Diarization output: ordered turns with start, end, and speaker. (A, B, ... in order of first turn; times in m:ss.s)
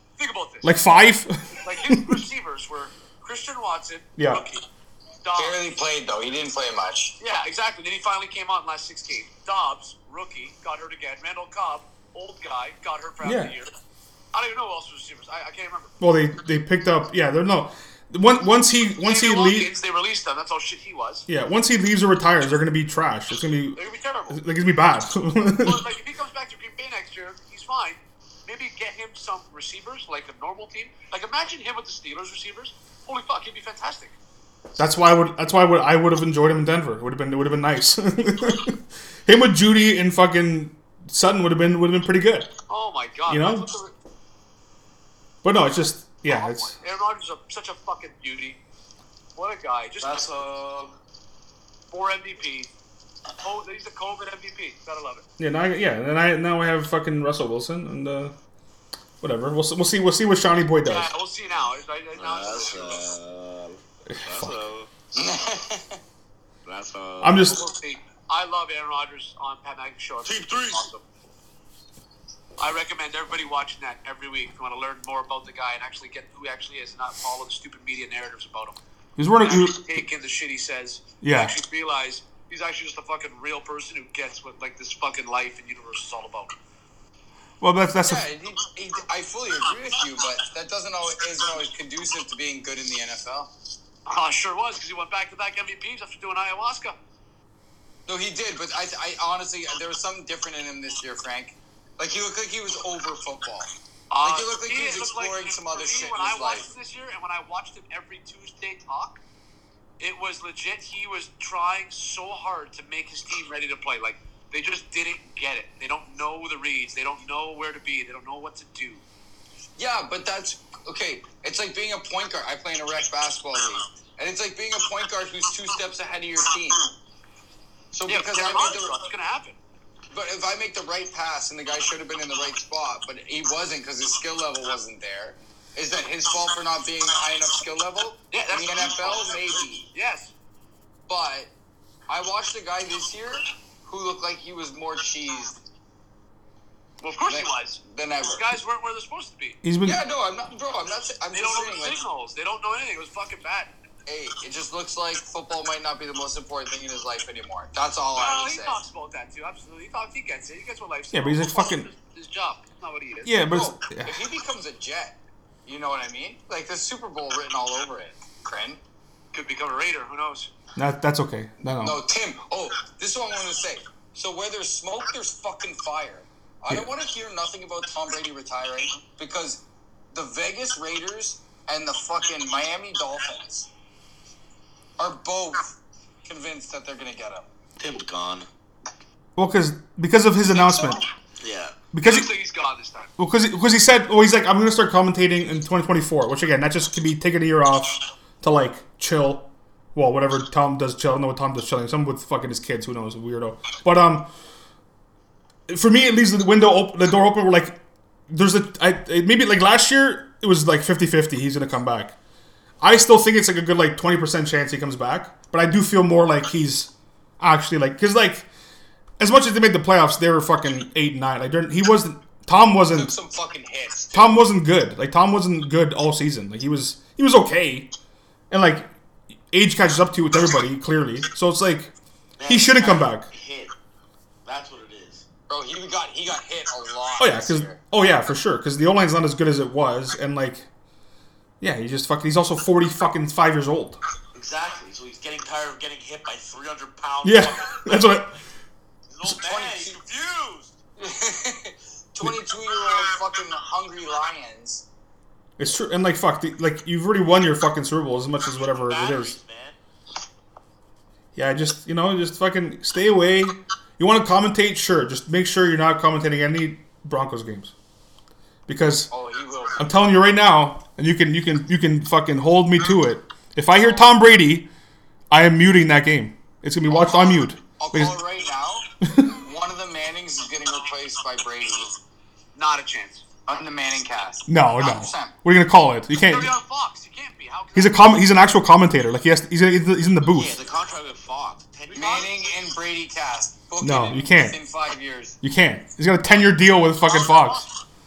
0:00.2-0:00.8 A
0:00.6-0:02.2 B
0:01.6-0:04.6 A
0:04.2-0:04.4 B
0:05.2-0:05.6 A
0:05.4-0:07.2 C
0:07.2-0:13.7 A
0:13.2-0:13.5 B
0:14.3-0:15.9 A
0:16.0-0:19.7 B
0:19.0-0:21.3 A
0:21.3-0:23.8 B
0:23.8-0:24.4 A
0:24.3-0:25.8 B
0:25.6-0:34.2 A
0:34.8-0:42.5 B
0:42.7-0:43.9 A
0:43.3-0:43.7 B
0:45.4-0:46.8 B
0:46.3-0:48.6 A
0:49.4-0:50.3 A
0:50.0-0:51.0 D
0:51.9-0:52.7 A
0:53.4-0:55.3 A
0:55.4-0:58.4 B
0:59.2-1:01.1 B
1:00.9-1:03.1 A
1:02.2-1:04.9 D
1:04.1-1:04.6 B
1:05.2-1:06.0 C
1:06.7-1:07.4 D
1:07.2-1:07.6 B
1:07.4-1:11.0 A
1:10.2-1:10.8 D
1:12.6-1:18.8 A
1:19.2-1:19.8 B
1:19.4-1:26.5 A
1:21.2-1:21.6 B
1:27.6-1:28.2 B
1:28.0-1:33.5 C
1:34.1-1:37.0 A
1:38.1-1:43.7 C
1:44.1-1:49.2 A
1:44.2-1:46.7 C
1:50.0-1:59.0 A
1:59.8-2:06.9 C
2:07.9-2:09.0 C
2:08.1-2:09.6 A
2:10.1-2:19.9 C
2:18.3-2:19.3 A
2:19.9-2:20.3 A
2:21.1-2:21.5 C
2:22.1-2:25.6 C
2:27.0-2:29.6 A
2:27.3-2:28.5 C
2:29.6-2:30.0 B
2:29.8-2:32.0 C
2:31.3-2:33.7 A
2:34.1-2:38.8 C
2:38.2-2:43.4 A
2:41.1-2:41.9 B
2:43.2-2:44.2 B
2:43.5-2:48.8 C
2:49.3-2:50.5 A
2:50.8-2:52.0 B
2:51.8-3:03.7 C
3:05.0-3:05.7 C
3:06.2-3:07.5 C
3:07.8-3:08.5 D
3:09.4-3:11.0 B
3:10.5-3:11.0 A
3:11.4-3:11.8 D
3:11.9-3:12.3 B
3:12.0-3:13.1 A
3:13.2-3:24.3 B
3:25.7-3:27.8 B
3:28.3-3:32.2 B
3:32.8-3:38.5 B
3:39.2-3:43.1 B
3:42.9-3:44.4 C
3:44.1-3:47.9 B
3:48.5-3:48.9 B
3:49.5-3:51.9 B
3:52.4-3:53.7 D
3:52.5-3:53.3 B
3:54.4-3:55.2 D
3:55.5-3:57.8 C
3:57.2-4:00.7 B
4:01.6-4:04.0 B
4:04.4-4:08.3 D
4:07.2-4:08.3 B
4:09.1-4:10.7 D
4:09.4-4:10.0 C
4:11.0-4:14.8 C
4:15.6-4:19.4 B
4:18.8-4:19.8 D
4:21.4-4:27.7 B
4:28.7-4:29.1 B
4:29.1-4:29.8 C
4:29.8-4:34.7 B
4:33.8-4:34.1 C
4:35.3-4:38.2 B
4:36.9-4:42.0 C
4:42.6-4:43.2 A
4:43.5-4:45.3 C
4:44.5-4:46.5 B
4:46.2-4:48.2 A
4:47.8-4:50.6 B
4:50.3-4:52.3 D
4:51.9-4:52.5 A
4:51.9-4:55.4 C
4:53.8-4:54.6 B
4:55.4-4:57.6 B
4:57.0-4:57.7 A